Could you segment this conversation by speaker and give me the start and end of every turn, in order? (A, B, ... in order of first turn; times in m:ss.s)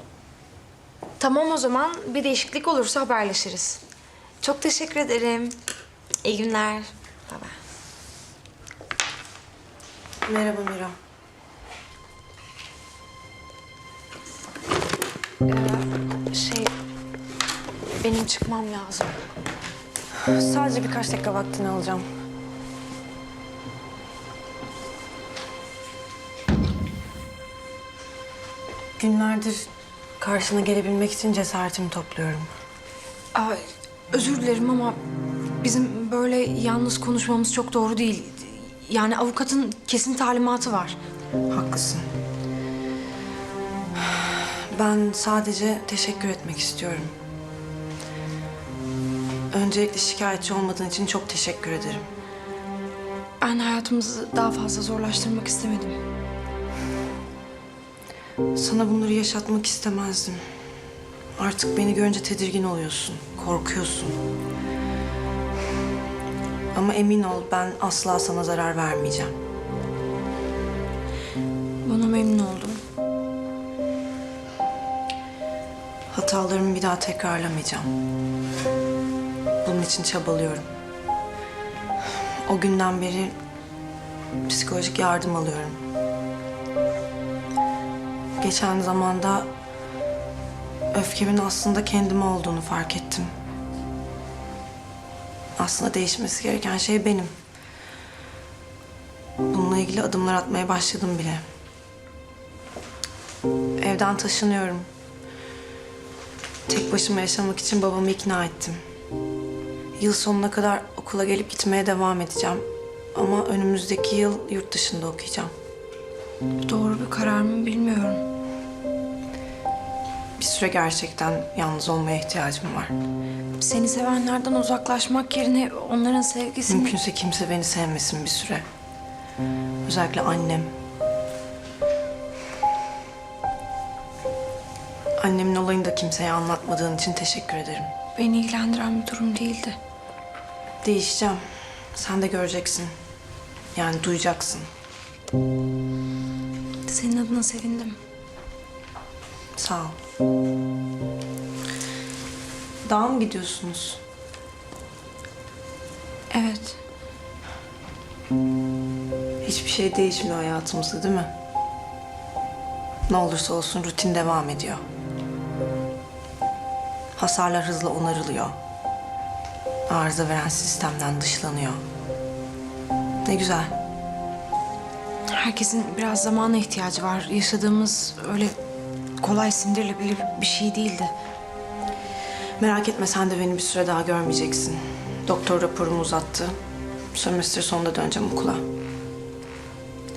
0:01.2-0:03.8 A
0:04.4-0:05.6 A
0:06.2-0:07.5 A
0:10.2-0:10.9 B
0:15.5-0:16.7 A
0:18.0-0:19.1 A
0:20.3-0:22.0 B
0:29.0-0:29.7 B
0:30.2-0:32.5 B
0:33.4-0:33.6 A
0:34.1-0:35.0 A
0:35.6-0:41.0 A
0:41.5-0:42.1 B
0:44.2-0:47.1 B
0:49.5-0:52.1 B
0:53.4-0:56.0 A
0:58.6-1:00.4 B
1:01.4-1:04.2 B
1:06.7-1:09.3 B
1:11.8-1:12.8 A
1:16.1-1:17.9 B
1:19.6-1:20.7 B
1:22.5-1:23.4 B
1:24.5-1:25.8 B
1:28.4-1:29.5 B
1:30.9-1:33.3 B
1:35.6-1:37.3 B
1:39.5-1:41.4 B
1:43.8-1:44.9 B
1:46.7-1:48.8 B
1:50.0-1:55.5 B
1:56.6-1:58.2 A
2:00.4-2:03.0 B
2:03.6-2:06.9 A
2:06.7-2:08.7 B
2:09.9-2:10.7 B
2:15.2-2:17.9 B
2:18.2-2:19.8 A
2:20.8-2:21.4 B
2:22.0-2:22.9 B
2:23.8-2:24.7 B
2:26.9-2:28.0 A
2:29.6-2:30.0 B
2:32.8-2:34.0 B
2:36.3-2:36.8 A
2:39.4-2:41.3 B
2:43.1-2:44.8 B
2:47.2-2:48.6 B
2:49.9-2:51.8 B
2:53.2-2:53.7 B
2:55.3-2:58.6 A
2:59.2-3:01.1 A
3:02.6-3:06.6 B
3:07.1-3:08.6 B